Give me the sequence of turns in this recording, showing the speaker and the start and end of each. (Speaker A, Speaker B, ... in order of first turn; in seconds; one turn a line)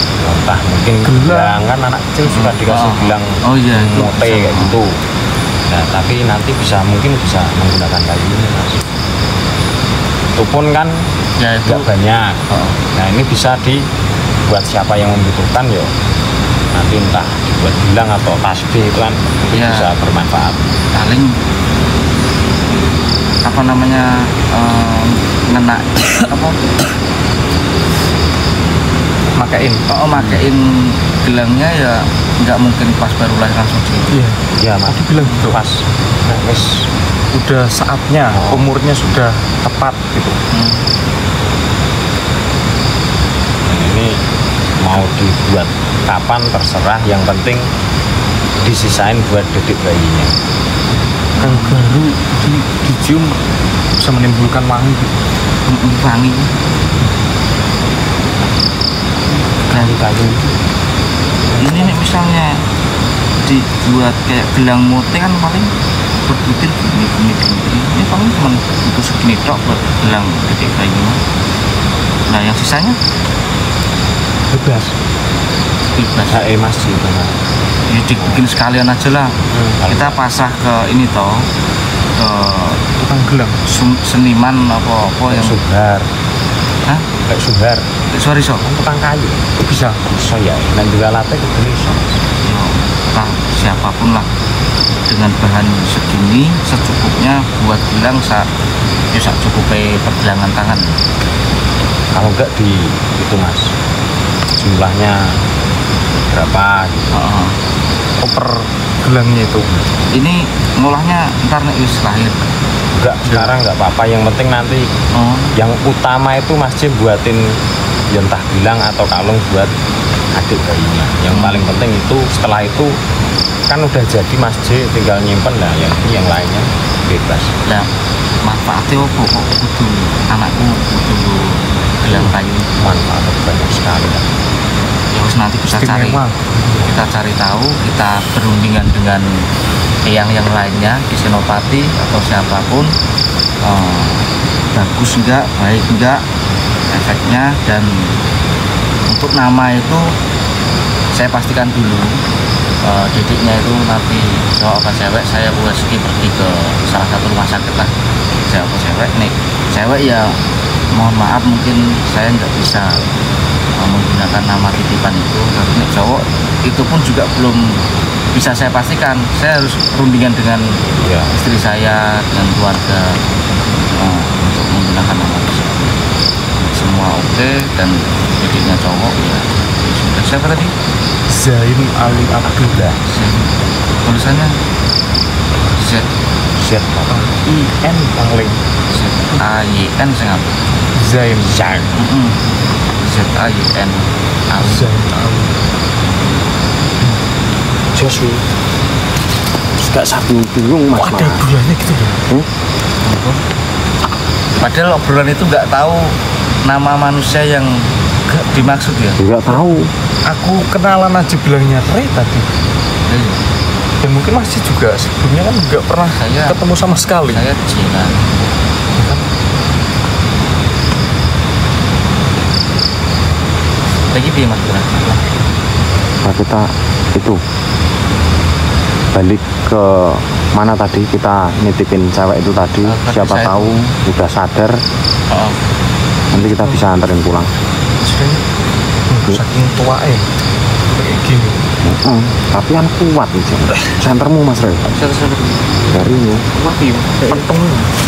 Speaker A: 0.2-4.9
Speaker B: 1.0-1.7
Speaker C: 2.3-4.8
Speaker A: 5.7-8.8
Speaker A: 10.3-11.1
Speaker C: 11.4-11.8
Speaker A: 11.6-12.4
Speaker C: 12.5-12.8
Speaker A: 12.9-13.8
Speaker A: 14.5-15.9
Speaker A: 16.7-20.7
Speaker C: 19.5-19.9
Speaker C: 20.9-21.4
Speaker C: 23.4-26.6
Speaker B: 29.3-29.8
Speaker C: 29.9-34.1
Speaker A: 30.1-30.4
Speaker B: 34.1-35.6
Speaker A: 34.5-36.9
Speaker B: 37.3-40.4
Speaker A: 38.3-38.7
Speaker C: 40.5-40.8
Speaker A: 43.7-44.1
Speaker A: 44.8-47.7
Speaker A: 48.6-50.3
Speaker B: 51.4-53.4
Speaker C: 51.4-52.0
Speaker B: 54.0-55.1
Speaker C: 55.7-56.5
Speaker A: 59.7-60.5
Speaker C: 59.7-60.0
Speaker C: 61.6-62.6
Speaker C: 63.4-65.7
Speaker C: 66.2-71.2
Speaker C: 72.3-73.0
Speaker B: 74.5-74.9
Speaker C: 75.9-76.5
Speaker A: 76.3-77.3
Speaker C: 77.9-81.5
Speaker A: 79.5-80.1
Speaker C: 82.2-82.8
Speaker B: 83.0-83.6
Speaker C: 83.7-85.5
Speaker A: 85.3-86.1
Speaker A: 87.3-87.8
Speaker C: 88.1-88.6
Speaker A: 88.6-89.5
Speaker B: 89.6-90.0
Speaker A: 90.1-92.0
Speaker C: 92.4-94.3
Speaker C: 95.1-98.5
Speaker C: 99.1-100.9
Speaker A: 102.1-103.7
Speaker A: 104.6-105.4
Speaker A: 106.3-107.2
Speaker C: 107.1-107.5
Speaker B: 108.2-109.7
Speaker C: 110.1-112.4
Speaker A: 112.9-114.9
Speaker C: 115.1-115.5
Speaker A: 115.5-117.5
Speaker A: 118.1-119.7
Speaker A: 120.3-123.0
Speaker C: 121.3-121.7
Speaker A: 123.7-127.5
Speaker C: 128.4-132.7
Speaker A: 132.1-134.3
Speaker C: 135.1-136.2
Speaker B: 135.7-136.9
Speaker C: 136.8-139.2
Speaker C: 140.1-142.9
Speaker C: 143.6-146.2
Speaker C: 146.9-148.1
Speaker C: 149.1-150.1
Speaker C: 151.1-152.2
Speaker C: 152.8-157.9
Speaker C: 158.5-160.4
Speaker C: 160.9-163.1
Speaker C: 163.8-167.8
Speaker C: 168.3-170.8
Speaker A: 170.9-171.3
Speaker C: 171.3-173.2
Speaker C: 173.9-176.0
Speaker C: 176.6-180.7
Speaker B: 181.3-182.9
Speaker A: 182.1-183.0
Speaker C: 183.0-183.5
Speaker C: 184.0-184.5
Speaker C: 185.8-186.1
Speaker A: 186.6-187.3
Speaker B: 187.1-188.6
Speaker C: 188.9-190.5
Speaker B: 190.9-191.6
Speaker A: 191.4-192.0
Speaker C: 191.9-192.4
Speaker C: 193.0-194.9
Speaker B: 194.6-195.5
Speaker A: 197.9-198.4
Speaker A: 199.8-201.4
Speaker B: 200.9-202.2
Speaker C: 203.0-203.4
Speaker C: 204.6-209.2
Speaker A: 209.2-209.9
Speaker B: 210.2-212.5
Speaker C: 213.1-213.4
Speaker B: 214.0-217.4
Speaker C: 216.2-218.2
Speaker C: 224.1-225.1
Speaker A: 226.2-227.4
Speaker A: 229.1-234.8
Speaker C: 232.8-233.8
Speaker C: 235.3-235.6
Speaker A: 236.3-237.5
Speaker C: 236.4-236.7
Speaker B: 238.0-238.4
Speaker B: 239.1-240.3
Speaker B: 240.9-241.6
Speaker A: 241.8-244.9
Speaker C: 244.9-245.6
Speaker A: 245.9-246.5
Speaker C: 246.5-247.2
Speaker B: 247.2-247.9